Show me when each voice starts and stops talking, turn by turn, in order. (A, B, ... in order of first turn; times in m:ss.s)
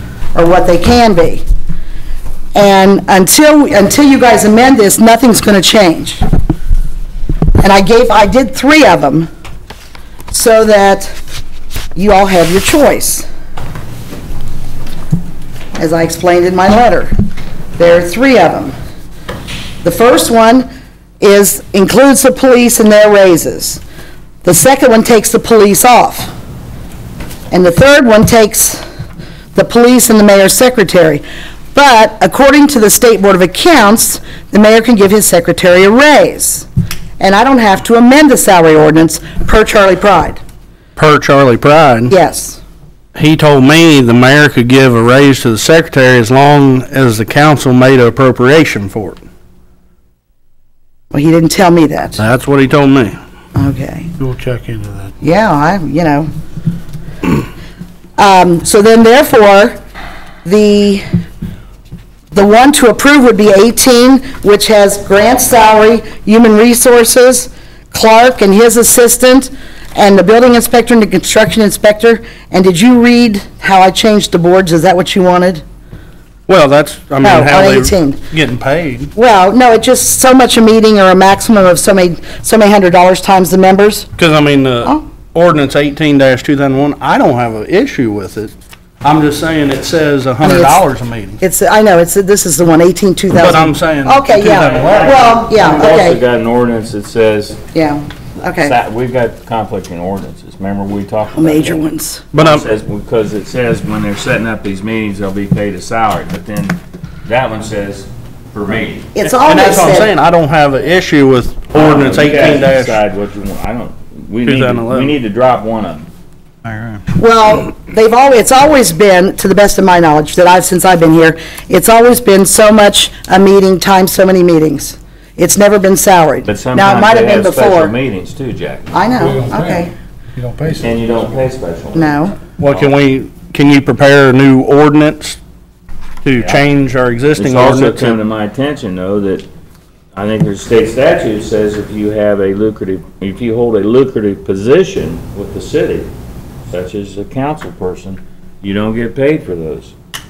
0:00.3-0:01.4 A
0:02.5-0:06.2 A
0:07.6-0:09.3 A
0:10.3-0:11.1 A
0:12.0-0:13.3 A
0:15.8-0:17.1 A
0:17.8-0:18.8 A
0:19.8-0:20.7 A
0:21.2-0:23.8 A
0:24.4-0:26.3 A
0:27.5-0:28.8 A
0:29.5-0:31.2 A
0:31.7-0:36.7 A
0:37.2-0:40.4 A
0:41.0-0:42.1 B
0:42.1-0:42.6 A
0:43.2-0:49.2 B
0:51.1-0:52.2 A
0:52.2-0:53.2 B
0:53.6-0:54.1 A
0:54.2-0:55.2 C
0:55.2-0:56.3 A
0:58.2-0:59.8 A
1:00.4-1:01.0 A
1:02.3-1:15.6 A
1:16.5-1:19.1 B
1:17.2-1:18.2 A
1:19.2-1:24.1 A
1:24.2-1:28.5 B
1:29.0-1:31.4 B
1:30.4-1:30.8 A
1:31.4-1:36.2 A
1:33.4-1:35.2 B
1:34.8-1:37.6 D
1:37.7-1:38.8 A
1:38.5-1:41.8 D
1:41.3-1:42.2 A
1:42.3-1:42.6 B
1:42.3-1:49.2 D
1:49.2-1:50.1 A
1:49.3-1:53.0 B
1:51.7-1:56.1 D
1:54.5-1:55.1 B
1:57.2-2:08.0 A
2:06.4-2:08.9 D
2:08.9-2:09.9 A
2:09.1-2:11.4 C
2:10.8-2:12.9 D
2:11.9-2:12.4 A
2:12.6-2:15.4 B
2:16.2-2:18.2 B
2:16.4-2:16.7 D
2:17.4-2:19.5 D
2:20.2-2:26.1 D
2:26.7-2:29.9 D